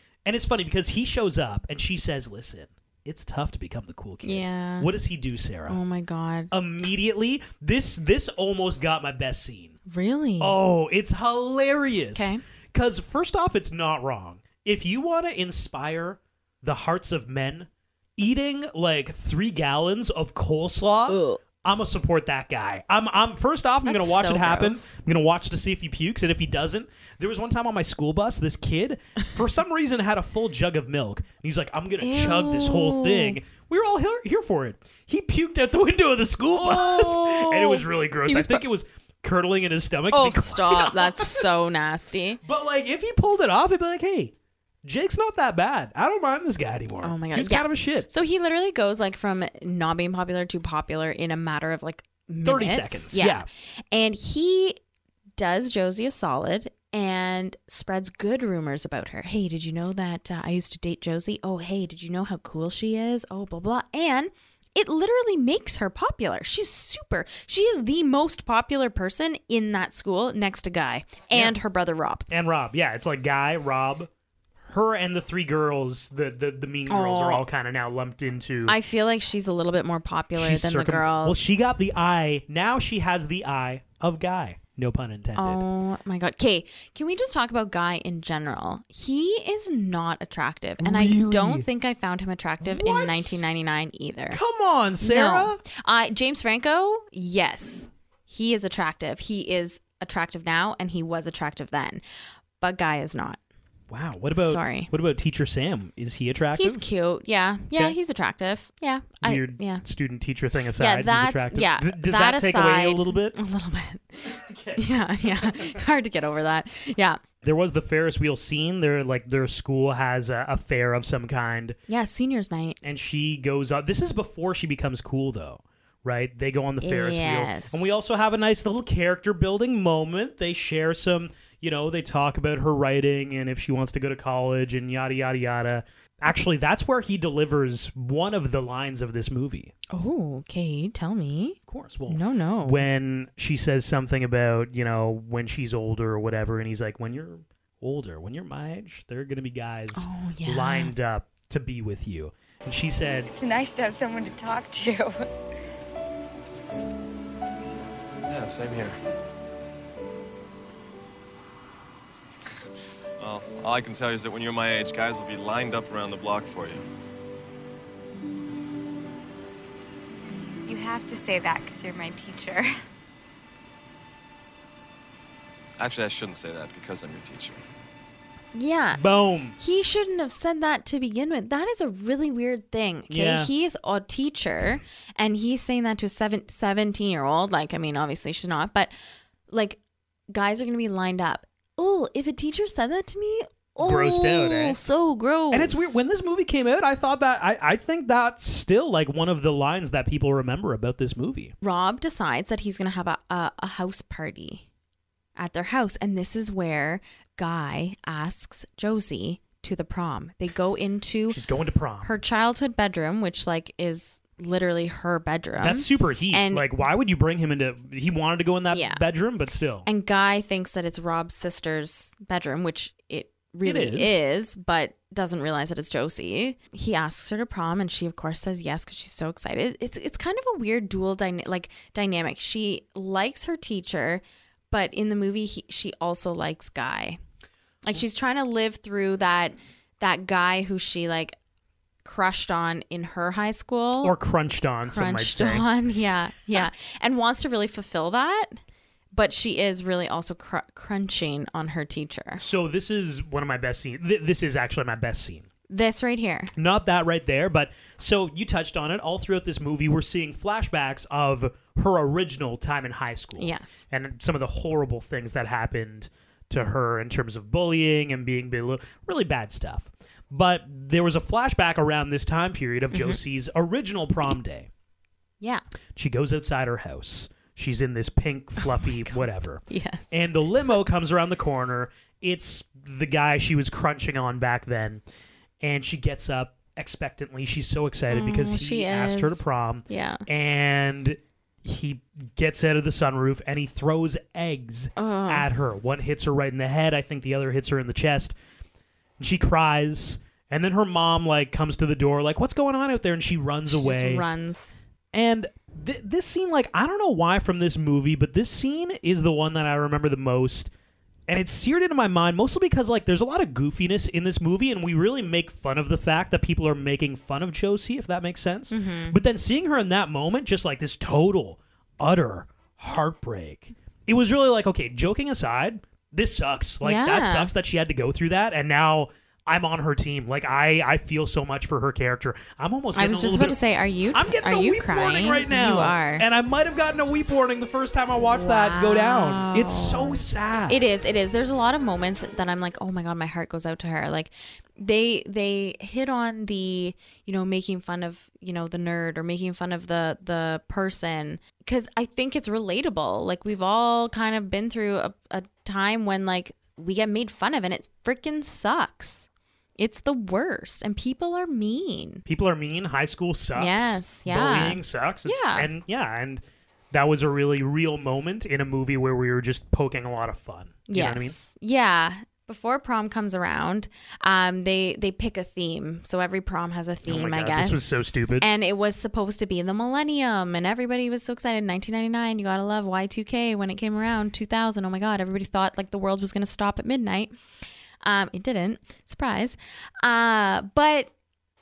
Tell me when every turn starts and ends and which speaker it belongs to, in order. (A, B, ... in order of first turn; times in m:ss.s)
0:00.2-0:05.8 A
0:04.2-0:04.9 B
0:05.7-0:06.5 B
0:06.5-0:09.8 A
0:09.9-0:10.6 B
0:10.4-0:41.5 A
0:12.2-0:12.4 B
0:21.1-0:21.4 B
0:23.8-0:24.9 B
0:32.0-0:33.4 B
0:36.5-0:38.6 B
0:40.1-0:42.4 B
0:42.4-0:44.3 A
0:44.8-0:48.1 A
0:47.0-0:54.8 B
0:52.4-0:53.5 A
0:55.4-1:12.3 B
1:12.3-1:14.1 A
1:14.7-1:18.8 A
1:16.9-1:17.5 B
1:18.7-1:21.5 B
1:20.4-1:25.6 A
1:25.4-1:34.4 B
1:30.8-1:31.7 A
1:32.6-1:33.4 A
1:34.3-1:35.6 A
1:35.0-1:42.0 B
1:42.6-1:43.4 B
1:43.9-1:46.8 A
1:44.3-1:44.9 B
1:46.6-1:49.8 B
1:49.2-1:53.4 A
1:50.8-1:57.2 B
1:54.2-1:55.8 A
1:57.4-2:01.8 A
2:01.9-2:02.8 B
2:02.8-2:19.7 A
2:06.8-2:08.1 B
2:19.9-2:22.9 B
2:21.7-2:33.3 A
2:30.0-2:30.9 B
2:33.3-2:35.3 C
2:38.2-2:39.0 D
2:43.2-2:46.8 D
2:50.7-2:52.7 C
2:55.8-2:57.6 D
2:58.5-2:59.0 B
2:59.0-2:59.6 A
2:59.6-3:08.9 B
3:03.1-3:03.5 A
3:09.5-3:09.8 B
3:10.3-3:16.0 B
3:13.8-3:14.8 A
3:15.5-3:21.5 A
3:21.6-3:24.7 B
3:25.4-3:31.4 B
3:31.3-3:32.1 A
3:32.0-3:36.7 B
3:35.6-3:39.9 A
3:38.7-3:39.0 B
3:39.9-3:57.2 B
3:43.6-3:44.2 A
3:57.8-4:01.4 B
4:02.0-4:04.2 B
4:04.0-4:05.7 A
4:04.8-4:08.6 B
4:09.1-4:12.4 B
4:12.4-4:15.5 A
4:15.7-4:16.5 B
4:16.6-4:34.7 A
4:23.4-4:23.8 B
4:32.9-4:33.2 B
4:36.0-4:45.0 A
4:38.7-4:40.2 B
4:45.6-4:58.4 A
4:48.1-4:50.2 B
4:55.0-4:55.5 B
4:59.2-5:04.2 A
5:03.7-5:04.7 B
5:05.1-5:10.7 A
5:11.3-5:33.6 A
5:18.7-5:19.2 B
5:26.8-5:27.5 B
5:32.9-5:36.3 B
5:34.1-5:40.8 A
5:38.4-6:02.2 B
6:02.3-6:11.4 A
6:03.6-6:05.7 B
6:10.9-6:17.8 B
6:17.0-6:18.5 A
6:18.4-6:27.3 B
6:28.0-6:31.1 B